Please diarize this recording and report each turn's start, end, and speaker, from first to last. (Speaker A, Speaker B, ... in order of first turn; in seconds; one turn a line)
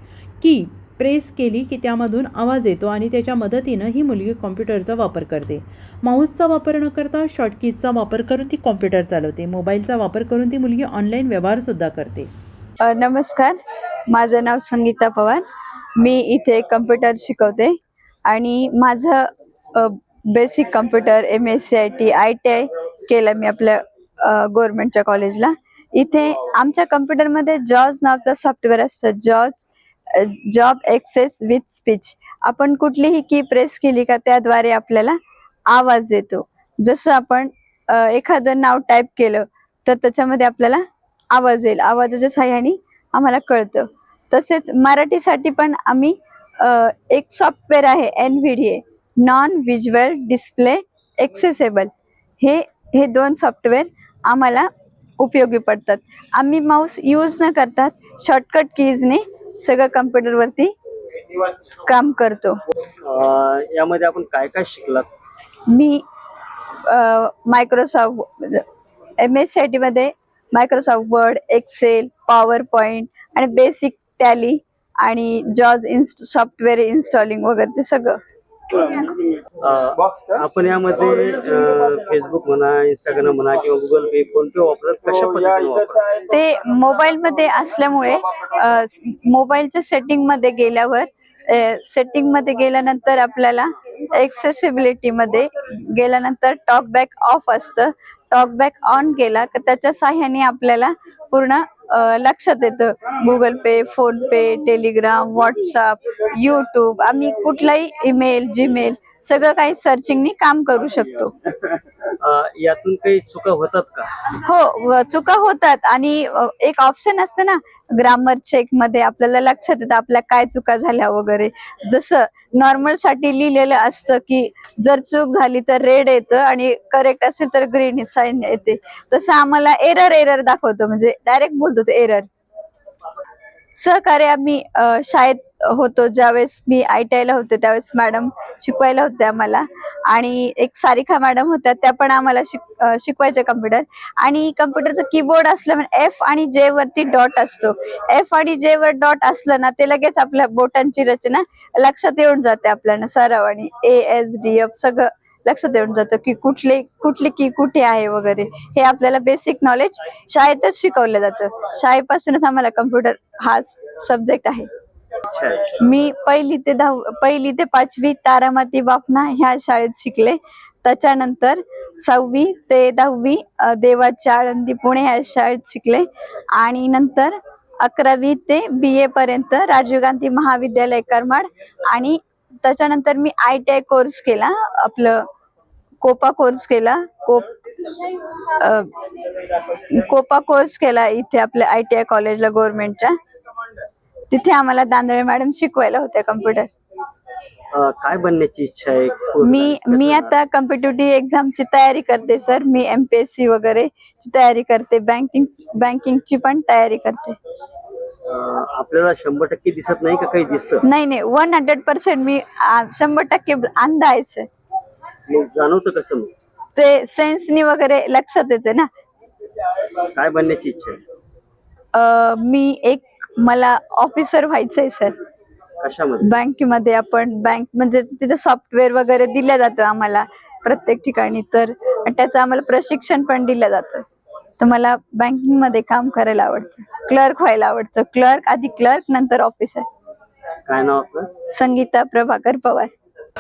Speaker A: 0.4-12.3
Speaker B: 12.8-13.6
Speaker B: 14.1-15.4
Speaker B: 16.0-35.2
Speaker B: 35.7-54.7
Speaker B: 55.2-60.7
Speaker B: 61.9-62.6
Speaker C: 63.0-65.1
Speaker B: 65.7-66.0
Speaker B: 66.9-68.6
Speaker B: 69.2-78.2
Speaker C: 79.6-86.2
Speaker B: 86.3-111.3
Speaker C: 112.2-114.1
Speaker B: 114.4-132.3
Speaker B: 133.7-164.7
Speaker C: 165.3-165.8
Speaker B: 165.8-185.2
Speaker B: 186.0-187.6
Speaker B: 188.6-188.9
Speaker B: 189.7-193.2
Speaker B: 194.3-196.7
Speaker C: 197.7-200.3
Speaker B: 199.4-207.4
Speaker C: 208.3-210.8
Speaker B: 210.8-214.5
Speaker C: 215.3-216.3
Speaker B: 216.8-218.9
Speaker C: 220.2-221.0
Speaker B: 221.9-225.1
Speaker C: 225.8-226.3
Speaker B: 226.2-234.0
Speaker B: 234.6-239.9
Speaker C: 240.7-241.3
Speaker B: 241.5-242.9